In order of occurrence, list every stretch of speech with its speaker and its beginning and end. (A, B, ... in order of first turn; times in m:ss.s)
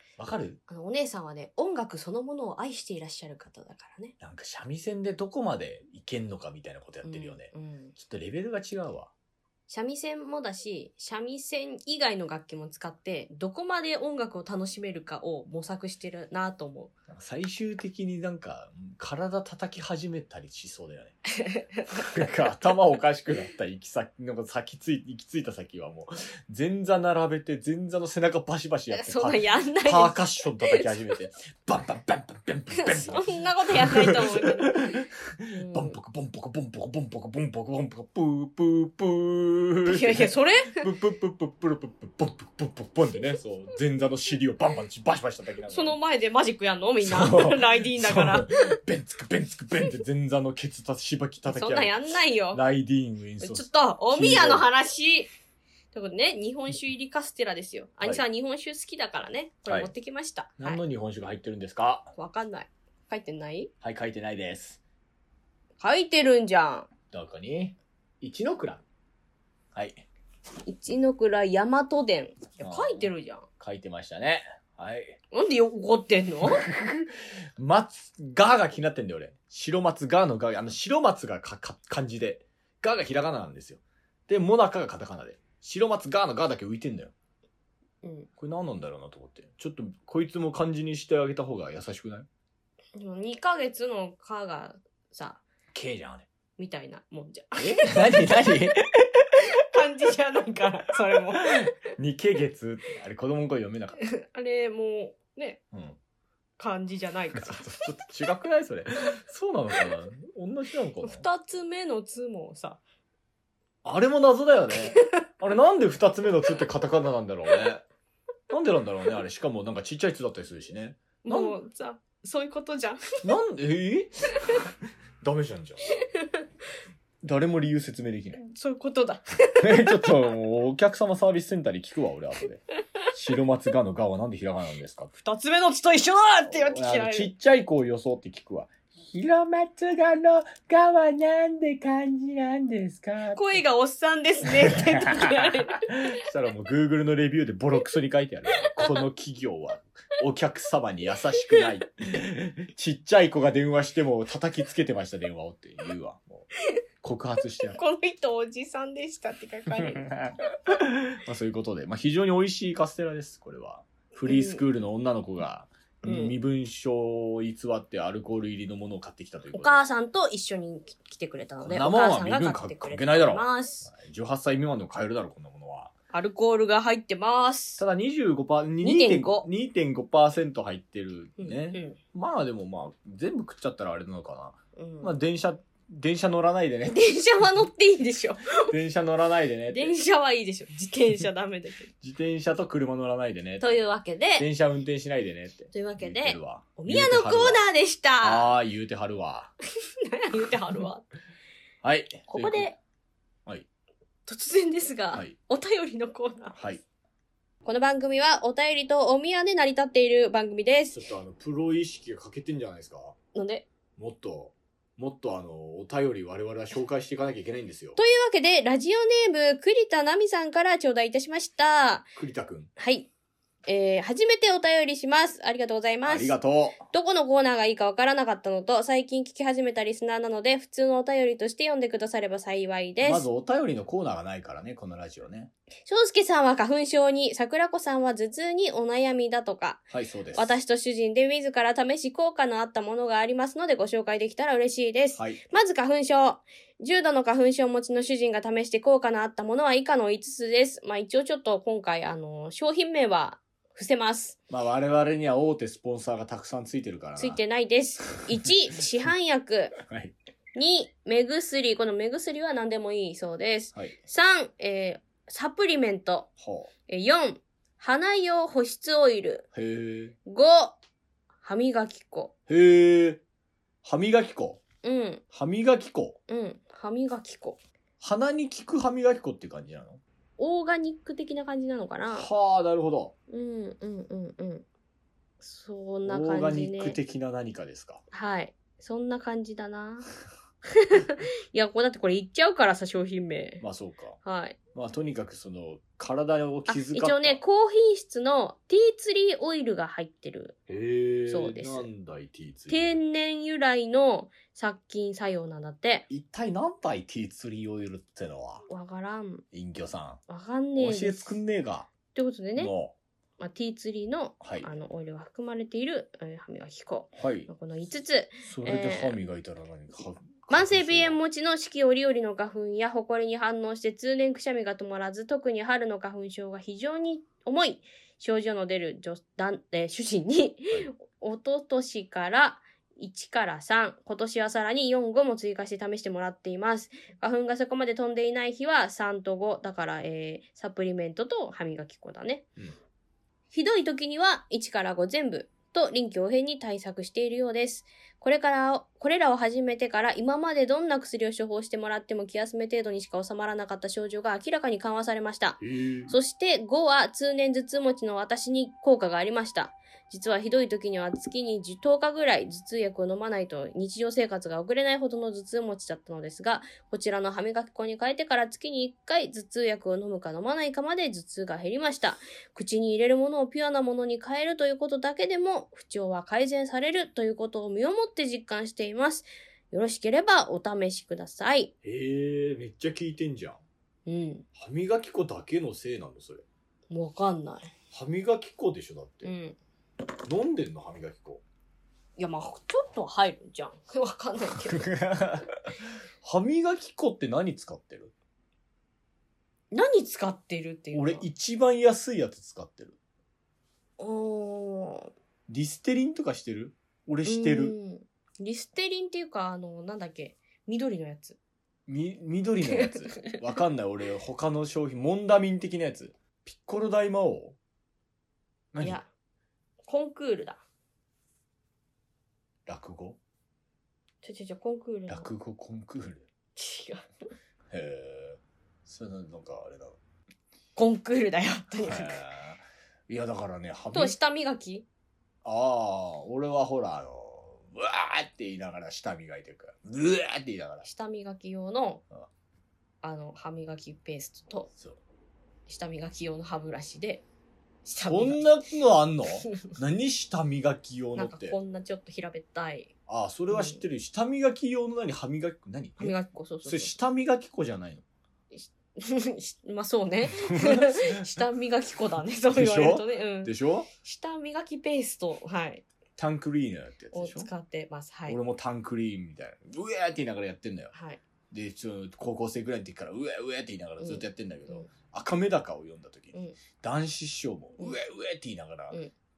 0:00.2-0:00.6 A
0:00.7-0:04.2 B
0:04.2-0:09.1 A
0:07.0-0:07.9 B
0:09.7-0:16.9 B
0:17.1-0:21.2 A
0:21.3-0:22.2 B
0:21.9-0:46.0 A
0:28.9-0:30.9 B
0:32.7-0:36.0 B
0:39.8-0:40.9 B
0:45.7-0:48.8 B
0:47.0-0:54.7 A
0:51.5-0:52.6 B
0:53.4-0:55.3 B
0:55.9-1:00.8 B
1:00.6-1:02.1 A
1:02.2-1:03.7 B
1:03.8-1:04.8 A
1:05.8-1:06.9 B
1:07.1-1:08.8 A
1:09.7-1:10.0 A
1:10.6-1:13.5 B
1:12.6-1:15.2 A
1:15.3-1:16.7 B
1:16.4-1:27.1 A
1:28.0-1:28.3 B
1:28.4-1:32.3 A
1:33.0-1:35.4 B
1:35.7-1:36.3 A
1:36.6-1:38.3 B
1:37.6-1:39.1 A
1:39.4-1:41.8 B
1:41.4-1:44.0 A
1:44.1-1:45.6 B
1:45.7-1:46.0 A
1:46.6-1:47.7 B
1:47.3-1:51.3 A
1:51.0-1:52.8 B
1:53.8-1:57.8 A
1:58.5-2:01.5 A
2:01.2-2:03.2 B
2:03.2-2:06.0 A
2:07.2-2:08.4 A
2:08.4-2:10.1 B
2:09.6-2:15.1 A
2:15.2-2:17.3 B
2:16.5-2:23.6 A
2:23.3-2:26.0 B
2:24.4-2:36.5 A
2:28.6-2:29.0 B
2:37.0-2:37.8 A
2:37.7-2:40.1 B
2:39.7-2:49.8 A
2:44.3-2:44.6 B
2:46.0-2:46.4 B
2:49.5-2:53.9 B
2:51.6-2:55.9 A
2:56.1-2:57.8 B
2:57.8-3:07.0 A
2:58.8-2:59.5 B
3:01.4-3:02.0 B
3:04.8-3:05.2 B
3:06.9-3:08.7 B
3:08.6-3:10.0 A
3:09.7-3:11.9 B
3:12.0-3:13.8 A
3:13.6-3:14.5 B
3:14.4-3:17.6 A
3:15.7-3:18.5 B
3:18.2-3:19.5 A
3:20.0-3:21.0 B
3:21.8-3:22.7 A
3:22.3-3:22.8 B
3:24.3-3:26.6 B
3:26.6-3:26.8 A
3:27.6-3:31.0 B
3:30.9-3:33.2 A
3:33.3-3:33.7 B
3:34.0-3:38.0 A
3:38.0-3:42.1 B
3:42.2-3:42.7 A
3:42.8-3:43.1 B
3:43.7-3:46.4 B
3:46.1-3:46.8 A
3:46.9-3:53.3 B
3:53.0-3:55.5 A
3:55.9-3:59.8 B
3:59.9-4:00.6 A
4:00.4-4:14.4 B
4:05.2-4:05.4 A
4:14.5-4:17.4 A
4:17.2-4:19.8 B
4:19.8-4:20.2 A
4:20.6-4:26.3 B
4:26.4-4:26.7 A
4:26.9-4:29.5 B
4:29.5-4:30.2 A
4:30.3-4:30.8 B
4:31.4-4:32.3 B
4:32.5-4:33.2 A
4:33.8-4:34.6 A
4:34.8-4:35.2 B
4:35.3-4:36.2 A
4:36.3-4:37.6 B
4:38.0-4:40.0 A
4:40.4-4:42.3 B
4:42.1-4:43.1 A
4:43.3-4:44.6 B
4:45.4-4:47.0 B
4:46.0-4:48.0 A
4:48.1-4:50.1 B
4:50.7-4:53.6 B
4:53.6-4:54.2 A
4:54.2-4:54.6 B
4:54.7-4:57.4 A
4:56.7-5:00.6 B
5:00.7-5:03.0 A
5:01.3-5:01.9 B
5:02.7-5:06.1 B
5:06.1-5:08.7 A
5:08.7-5:09.4 B
5:09.5-5:10.2 A
5:10.3-5:11.4 B
5:10.8-5:11.9 A
5:12.1-5:12.7 B
5:12.6-5:12.9 A
5:13.4-5:19.2 B
5:14.4-5:14.7 A
5:17.2-5:17.5 A
5:18.4-5:21.2 A
5:20.5-5:42.5 B
5:43.5-6:21.7 B
5:55.6-5:56.2 A
6:21.8-6:23.6 A
6:24.1-6:24.5 B
6:24.6-6:26.4 A
6:26.9-6:27.7 B
6:27.9-6:29.3 A
6:29.2-6:29.6 B
6:30.2-6:31.4 A
6:32.2-6:34.9 B
6:34.5-6:38.1 A
6:39.7-6:41.3 B
6:40.9-6:43.0 A
6:44.0-6:45.1 B
6:45.5-6:47.8 A
6:47.2-6:51.4 B
6:51.9-6:57.6 A
6:52.8-6:53.4 B
6:58.7-6:59.0 A
6:58.8-6:59.1 B
6:59.8-7:00.6 B
7:02.7-7:03.2 A
7:04.2-7:05.3 B
7:05.1-7:06.3 A
7:06.6-7:07.0 B
7:07.7-7:10.0 A
7:10.8-7:12.2 B
7:11.8-7:14.2 A
7:13.9-7:14.9 B
7:15.4-7:20.9 A
7:20.8-7:22.0 B
7:23.0-7:24.7 B
7:25.7-7:27.2 B
7:27.8-7:28.5 B
7:28.1-7:31.6 A
7:31.2-7:32.9 B
7:33.1-7:38.0 A
7:33.5-7:33.8 B
7:36.0-7:36.9 B
7:38.5-7:45.8 B
7:40.3-7:41.3 A
7:42.5-7:43.9 A
7:46.2-7:47.5 A
7:47.1-7:48.4 B
7:48.3-7:50.9 A
7:50.9-7:51.2 B
7:51.5-7:59.0 A
7:54.0-7:54.9 B